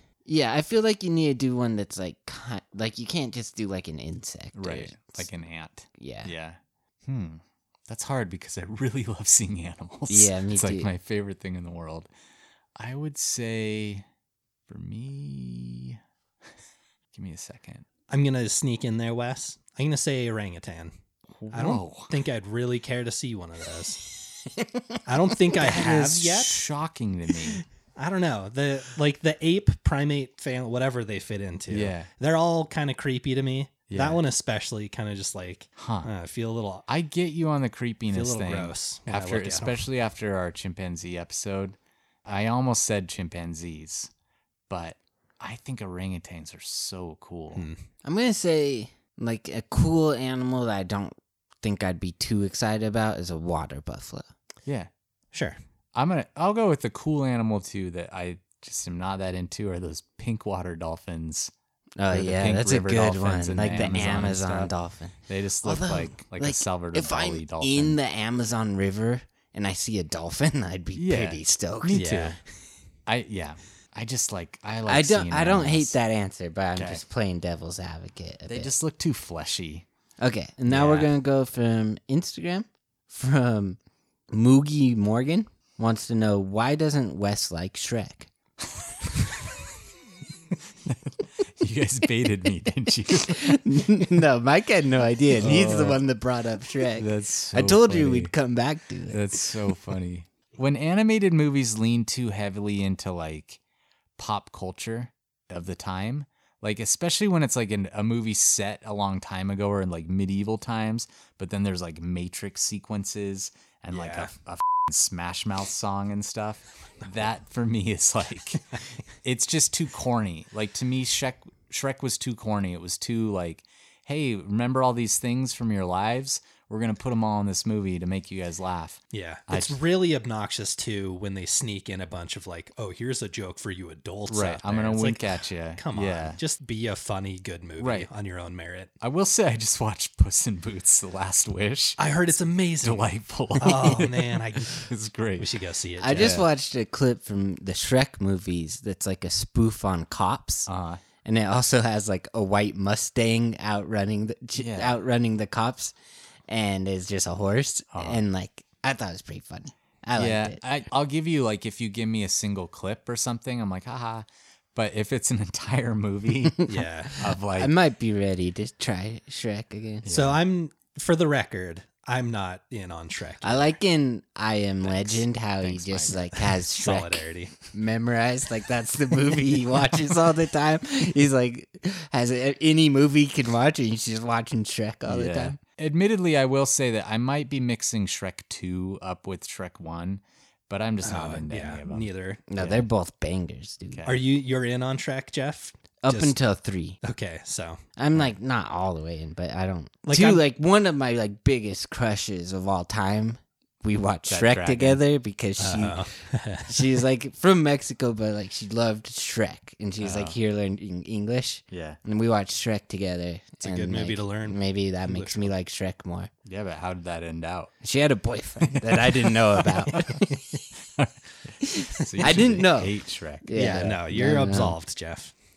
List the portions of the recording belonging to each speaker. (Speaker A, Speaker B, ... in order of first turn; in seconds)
Speaker A: 0.3-5.3, 6.0-6.3, 10.1-10.9, 48.0-54.3, 62.0-72.2, 74.9-78.7, 80.2-83.8, 84.3-88.3, 93.3-99.4, 146.0-150.7, 151.2-155.9, 156.5-160.6, 166.8-170.1, 173.4-185.6, 192.5-194.1, 196.0-197.0, 198.0-216.3, 217.8-220.6, 221.6-224.8
Speaker B: 4.5-12.1, 12.8-14.1, 14.7-16.0, 17.1-17.9, 21.4-22.1, 25.6-27.6, 31.7-32.1, 33.9-34.2, 35.8-36.1, 36.9-44.1, 44.7-47.7, 54.6-54.9, 55.9-61.5, 62.1-68.0, 71.0-72.4, 73.1-76.0, 76.8-77.0, 78.5-79.8, 80.7-81.1, 90.8-93.6, 95.4-96.0, 96.9-98.3, 99.1-103.6, 104.2-129.8, 134.3-136.4, 137.8-138.1, 139.0-142.0, 142.8-145.6, 146.2-146.5, 150.7-151.0, 154.6-154.9, 157.9-158.2, 160.2-166.6, 167.2-167.7, 170.0-170.4, 174.8-176.2, 185.1-192.9, 193.9-194.2, 204.3-205.0, 210.0-210.4, 211.7-212.0, 216.5-217.7, 218.8-220.2, 221.0-223.5
Speaker C: 18.1-20.9, 21.5-24.1, 25.1-26.6, 28.0-36.9, 38.1-39.8, 47.5-47.8, 55.3-55.6, 72.0-72.4, 113.9-114.3, 129.1-138.9, 142.0-146.4, 166.7-167.2, 170.1-173.8, 176.7-177.6, 191.0-192.4, 194.1-196.4, 197.0-197.8, 200.1-200.4, 205.6-207.0, 213.6-215.5, 222.2-222.5, 223.5-225.3